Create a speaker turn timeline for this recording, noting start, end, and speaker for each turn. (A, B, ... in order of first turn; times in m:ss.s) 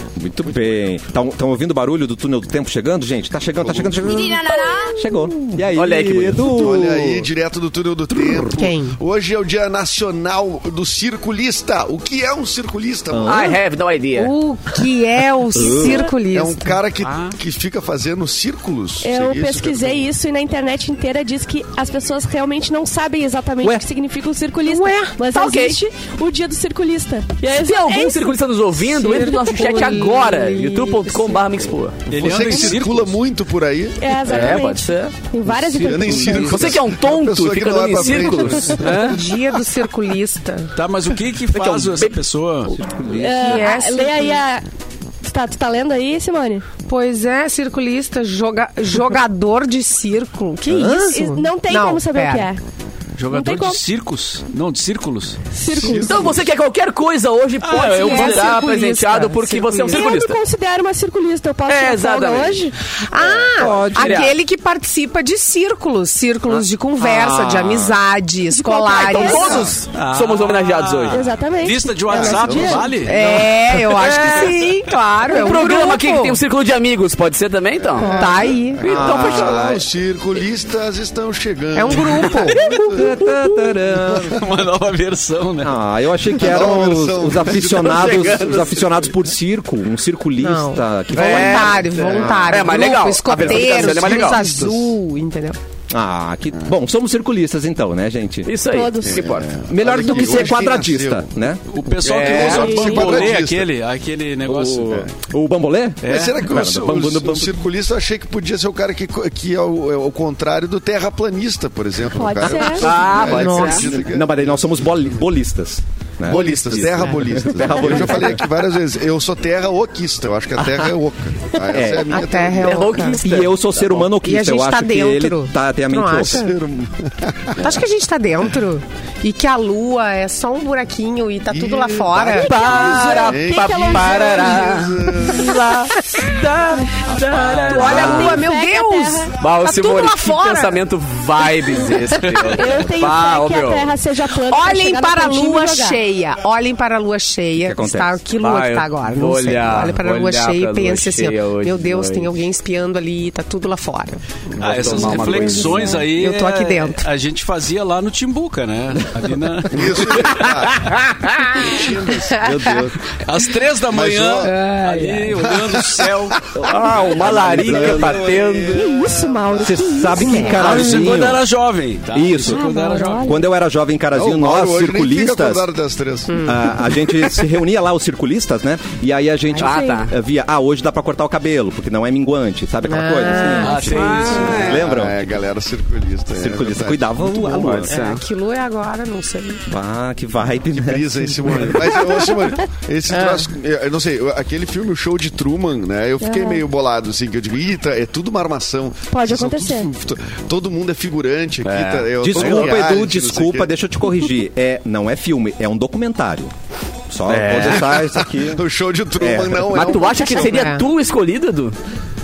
0:00.2-0:07.3 A
0:03.6-0:04.3 B
0:05.7-0:06.7 C
0:06.4-0:13.5 B
0:08.6-0:09.0 D
0:13.1-0:13.6 A
0:13.2-0:14.3 C
0:14.1-0:16.8 D
0:15.5-0:16.1 A
0:15.6-0:16.0 E
0:16.3-0:20.1 B
0:17.0-0:17.4 F
0:19.0-0:28.3 E
0:24.6-0:25.2 D
0:25.3-0:25.8 C
0:27.5-0:32.0 C
0:28.8-0:31.4 D
0:32.1-0:33.2 F
0:32.1-0:34.4 B
0:34.0-0:36.5 E
0:34.2-0:35.1 C
0:35.4-0:36.8 A
0:35.7-0:39.2 B
0:36.4-0:39.2 C
0:38.9-0:40.7 D
0:40.7-0:42.8 F
0:41.5-0:42.2 C
0:42.7-0:43.7 A
0:43.1-0:44.6 E
0:43.4-0:44.4 D
0:45.2-0:46.6 E
0:46.8-0:52.5 D
0:50.7-0:51.1 A
0:50.9-0:52.6 E
0:53.2-0:55.5 F
0:53.3-0:53.8 E
0:55.5-0:56.2 E
0:55.7-0:56.5 B
0:56.0-1:00.4 C
0:57.6-0:58.5 F
0:57.7-1:00.1 D
0:59.9-1:02.7 E
1:01.7-1:02.7 C
1:03.1-1:09.7 D
1:03.5-1:04.2 A
1:03.6-1:04.3 C
1:06.5-1:08.0 A
1:08.5-1:09.5 E
1:08.9-1:11.2 C
1:09.4-1:09.7 B
1:09.9-1:14.0 F
1:11.1-1:12.8 E
1:12.1-1:13.0 B
1:13.0-1:16.4 D
1:13.2-1:14.7 C
1:15.2-1:19.8 C
1:18.0-1:23.1 B
1:18.0-1:18.8 D
1:18.0-1:18.4 E
1:18.8-1:19.8 A
1:21.7-1:22.6 D
1:22.5-1:22.8 F
1:22.8-1:24.4 A
1:24.2-1:25.8 F
1:25.6-1:32.7 A
1:26.3-1:28.6 B
1:27.7-1:29.0 C
1:30.4-1:35.6 D
1:31.1-1:34.4 C
1:31.9-1:32.5 B
1:33.5-1:34.9 B
1:35.9-1:38.5 A
1:38.4-1:39.5 C
1:38.7-1:39.3 E
1:39.0-1:41.3 B
1:39.7-1:41.6 A
1:41.7-1:45.0 F
1:42.0-1:43.7 B
1:42.0-1:43.0 C
1:42.5-1:43.2 E
1:44.4-1:47.6 A
1:46.0-1:46.4 F
1:46.0-1:55.1 B
1:52.1-1:52.9 E
1:52.6-1:58.5 A
1:52.8-1:53.9 C
1:56.2-2:03.0 B
2:01.7-2:02.2 A
2:02.1-2:03.2 D
2:02.5-2:03.6 C
2:03.2-2:06.5 A
2:04.1-2:06.5 D
2:06.2-2:07.8 B
2:07.6-2:12.7 D
2:11.5-2:15.6 B
2:12.3-2:14.7 E
2:12.4-2:18.5 C
2:17.1-2:18.3 F
2:17.6-2:20.8 D
2:17.8-2:19.3 E
2:19.4-2:23.9 C
2:21.9-2:22.4 D
2:22.2-2:22.6 F
2:22.5-2:26.0 E
2:24.4-2:34.2 D
2:27.5-2:28.2 A
2:28.4-2:32.4 C
2:34.6-2:35.3 B
2:34.6-2:36.0 C
2:34.6-2:40.9 F
2:34.8-2:37.1 D
2:39.7-2:40.9 B
2:41.5-2:42.4 B
2:42.4-2:42.7 D
2:42.4-2:43.0 A
2:43.2-2:46.5 F
2:43.9-2:44.6 B
2:44.4-2:45.4 D
2:45.4-2:46.7 B
2:46.6-2:48.9 C
2:47.0-2:51.4 A
2:47.3-2:48.2 F
2:48.4-2:49.8 B
2:48.7-2:50.7 E
2:50.2-2:50.9 D
2:50.5-2:53.3 F
2:52.1-2:52.6 A
2:52.4-2:53.4 E
2:53.2-2:55.6 A
2:54.1-2:56.5 B
2:56.3-2:56.6 D
2:56.4-3:05.3 A
2:59.6-3:00.0 E
2:59.6-3:00.1 C
3:02.9-3:04.0 D
3:03.6-3:04.6 F
3:03.8-3:04.9 C
3:04.4-3:07.8 B
3:06.3-3:07.9 A
3:07.7-3:08.2 C
3:07.9-3:09.6 D
3:09.7-3:11.7 A
3:10.7-3:23.7 B
3:13.1-3:13.4 D
3:16.2-3:16.6 E
3:19.1-3:19.9 E
3:21.6-3:22.8 C
3:22.2-3:26.5 A
3:27.1-3:28.6 A
3:27.3-3:27.8 C
3:27.3-3:30.7 B
3:29.2-3:29.8 A
3:29.7-3:31.7 C
3:30.0-3:30.8 D